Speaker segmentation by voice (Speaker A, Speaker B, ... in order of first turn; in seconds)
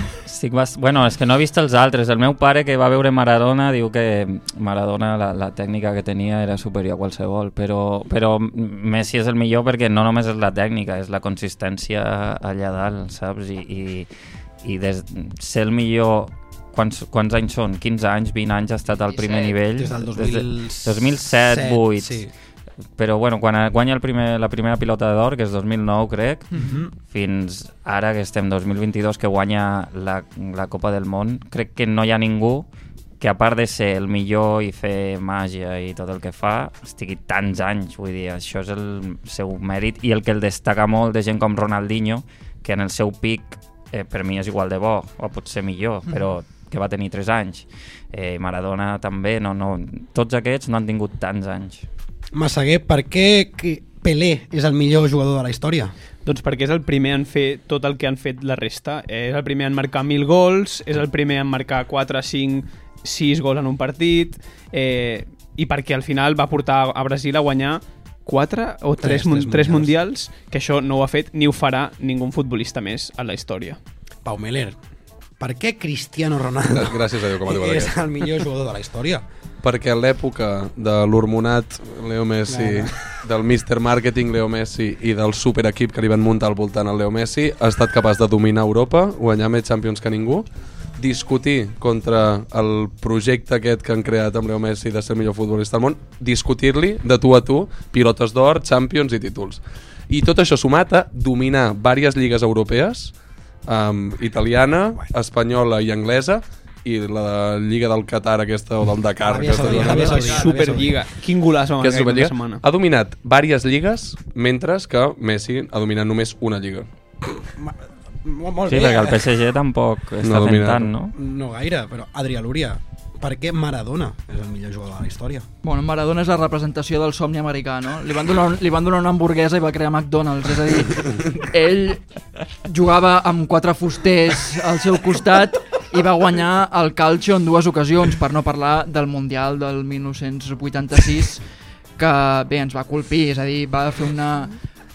Speaker A: 0.3-14.1, 14.6-22.2, 23.0-32.7, 33.2-51.9, 118.7-121.1
Speaker B: 19.0-19.6, 109.9-110.2, 125.6-132.0, 132.7-141.4, 142.0-144.5
Speaker C: 19.8-22.3, 26.6-26.9, 52.3-55.9, 69.0-69.9, 74.2-74.8, 75.4-79.2, 82.5-82.9, 109.2-111.0, 117.3-119.3, 121.2-125.5
Speaker D: 56.2-73.8, 109.8-112.6
Speaker E: 76.8-78.0, 79.6-90.5, 91.0-103.2, 103.7-110.4, 111.8-116.9, 120.2-120.9